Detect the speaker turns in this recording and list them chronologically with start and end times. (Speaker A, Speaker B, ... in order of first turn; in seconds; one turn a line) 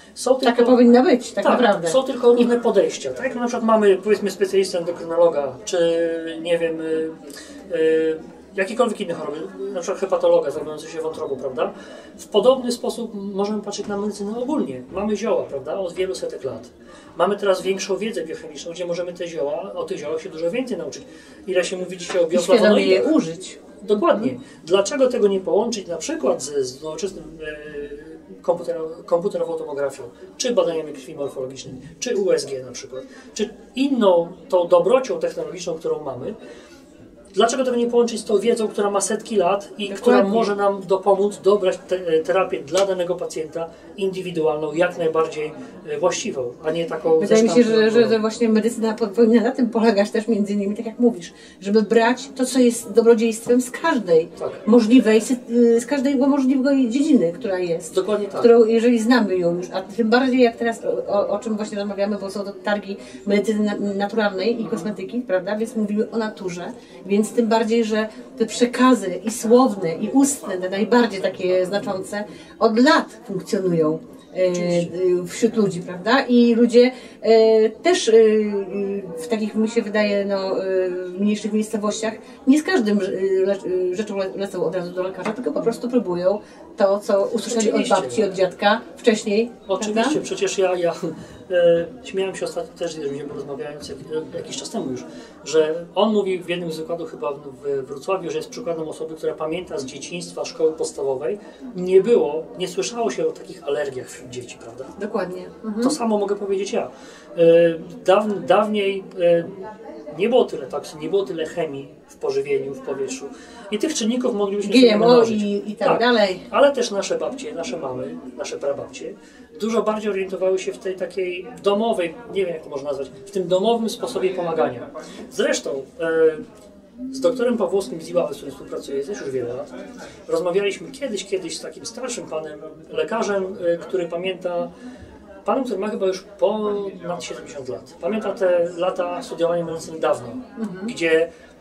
Speaker A: 0.1-0.8
Speaker B: 0.4-2.0
Speaker A: 1.4-23.1
Speaker B: 22.3-23.6
Speaker A: 23.8-36.4
Speaker A: 37.3-48.2
Speaker B: 39.9-40.5
Speaker B: 47.2-90.2
Speaker A: 54.4-54.6
Speaker A: 57.9-58.5
Speaker A: 74.5-74.9
Speaker A: 87.5-88.3
Speaker A: 89.7-104.9
Speaker B: 105.0-106.0
Speaker A: 105.8-126.4
Speaker B: 114.6-116.5
Speaker A: 127.1-129.7
Speaker A: 130.3-134.7
Speaker A: 135.4-141.3
Speaker B: 140.6-140.9